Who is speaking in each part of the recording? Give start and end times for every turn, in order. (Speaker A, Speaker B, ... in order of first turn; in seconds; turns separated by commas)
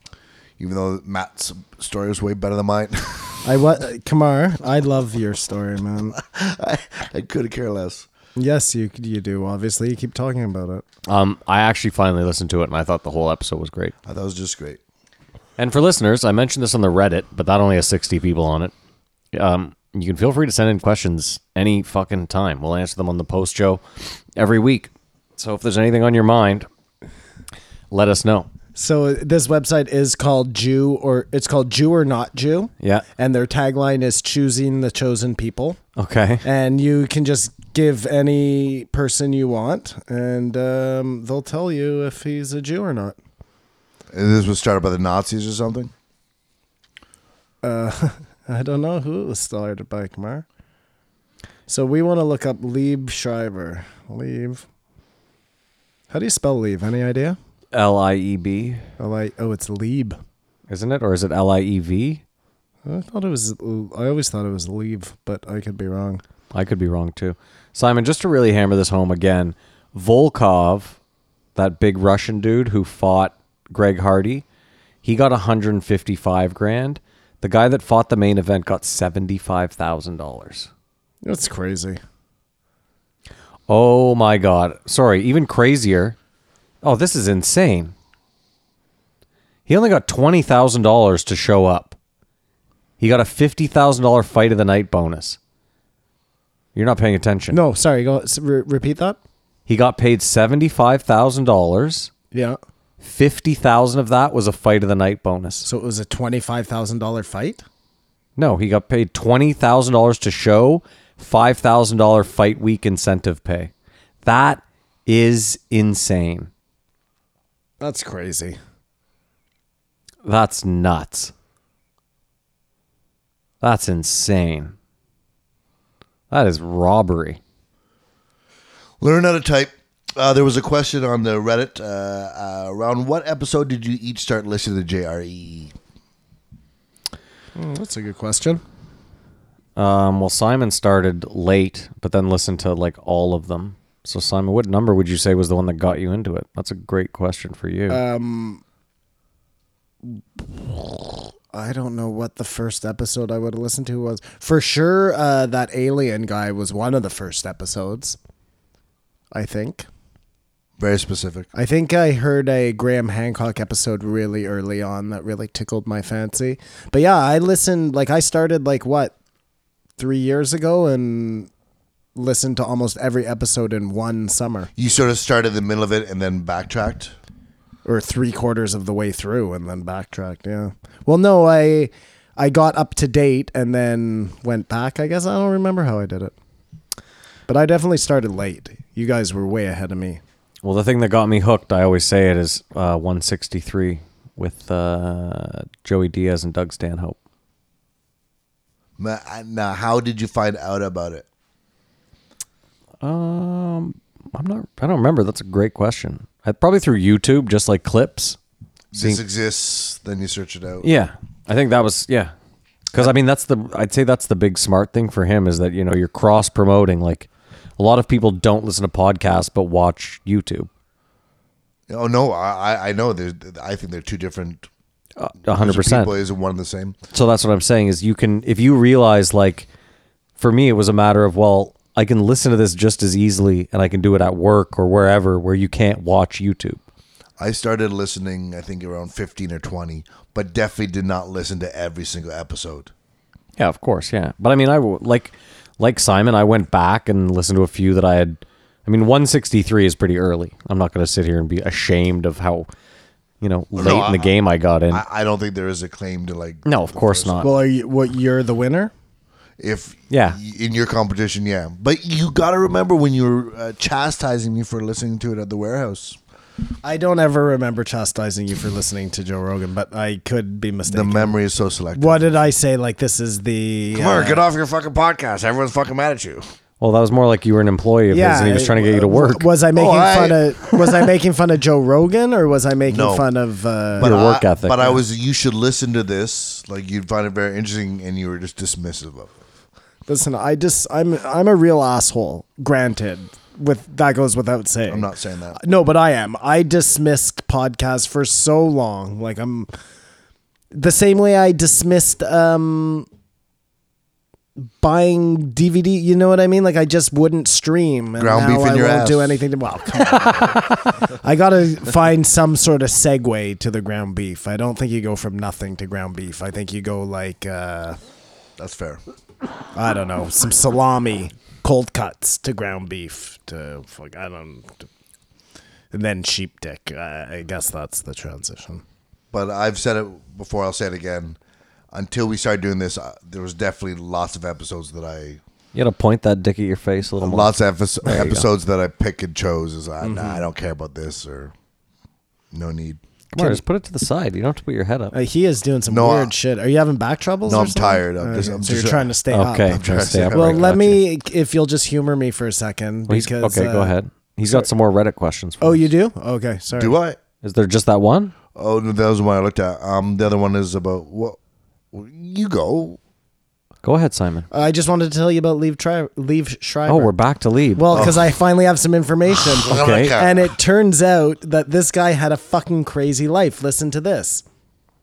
Speaker A: 0.6-3.5, Speaker B: 3.4-6.2, Speaker A: 6.1-8.1, Speaker B: 8.4-10.8, Speaker C: 11.1-13.9, Speaker A: 14.1-14.8, Speaker C: 15.6-18.7, Speaker C: 19.3-23.8, Speaker C: 24.4-26.7, Speaker C: 27.9-28.5, Speaker B: 28.8-35.8, Speaker C: 36.0-36.4, Speaker B: 36.4-43.2, Speaker A: 44.1-45.9, Speaker B: 47.6-50.5, Speaker B: 51.7-54.7, Speaker B: 56.1-57.4, Speaker C: 57.7-58.9, Speaker B: 59.0-60.2, Speaker C: 60.7-62.2, Speaker B: 62.9-66.2, Speaker C: 66.5-71.0, Speaker C: 71.5-74.4, Speaker C: 75.0-80.7, Speaker B: 81.2-82.0, Speaker C: 83.7-86.2, Speaker C: 86.8-87.9, Speaker C: 89.7-92.0, Speaker C: 93.0-95.4, Speaker C: 96.8-97.6, Speaker B: 97.5-99.2, Speaker C: 99.7-102.1, Speaker B: 102.3-102.6, Speaker C: 103.0-105.7, Speaker B: 105.6-107.6, Speaker C: 108.4-113.7, Speaker C: 114.2-116.5, Speaker B: 117.8-118.6, Speaker C: 120.2-121.3, Speaker C: 123.6-124.7, Speaker C: 126.3-127.4, Speaker A: 129.0-135.7, Speaker B: 137.6-138.6, Speaker C: 139.8-148.0, Speaker B: 147.9-148.6, Speaker B: 150.4-158.2, Speaker B: 159.3-159.9, Speaker A: 160.8-161.5, Speaker B: 161.5-169.1, Speaker B: 170.0-171.5, Speaker B: 172.2-174.7, Speaker A: 174.8-177.2, Speaker B: 177.8-186.3, Speaker B: 187.5-190.2, Speaker C: 190.6-197.2, Speaker A: 199.0-201.3, Speaker C: 203.0-208.4, Speaker A: 208.9-210.9, Speaker C: 208.9-209.2, Speaker C: 210.8-212.3, Speaker C: 212.9-220.7, Speaker A: 221.9-224.7, Speaker C: 225.2-226.1, Speaker A: 225.6-227.0, Speaker C: 227.1-229.7, Speaker C: 230.4-236.8, Speaker A: 237.4-242.9, Speaker C: 243.6-252.7, Speaker C: 253.4-255.0, Speaker A: 253.8-254.3, Speaker A: 254.9-257.5, Speaker C: 256.7-257.5, Speaker B: 257.4-258.9, Speaker A: 259.6-266.2, Speaker C: 260.1-260.4, Speaker B: 266.8-271.4, Speaker A: 270.9-272.3, Speaker B: 272.0-274.4, Speaker A: 273.9-276.4, Speaker C: 276.8-279.5, Speaker B: 278.1-284.1, Speaker A: 279.8-281.1, Speaker A: 282.9-283.3, Speaker C: 284.0-285.0, Speaker A: 284.0-289.3, Speaker B: 290.1-299.7, Speaker A: 294.9-295.6, Speaker B: 300.7-303.1, Speaker B: 304.6-318.0, Speaker A: 308.2-309.4, Speaker A: 318.6-319.0, Speaker B: 319.8-324.9, Speaker B: 325.9-328.8, Speaker A: 329.3-331.4, Speaker A: 331.9-335.4, Speaker C: 335.7-338.5, Speaker A: 337.2-341.5, Speaker B: 340.0-340.4, Speaker A: 342.5-343.0, Speaker C: 343.3-345.1, Speaker B: 345.1-349.8, Speaker A: 345.9-346.3, Speaker A: 347.5-349.1, Speaker C: 349.3-351.0, Speaker A: 349.7-350.8, Speaker B: 350.3-354.7, Speaker C: 353.1-355.9, Speaker B: 355.6-357.0, Speaker A: 356.8-357.2, Speaker C: 357.4-358.3, Speaker A: 358.6-361.4, Speaker A: 361.9-363.0, Speaker C: 363.8-364.5, Speaker B: 364.5-367.1, Speaker C: 366.9-368.1, Speaker B: 367.8-374.4, Speaker A: 367.9-368.2, Speaker A: 369.6-370.5, Speaker C: 369.6-370.2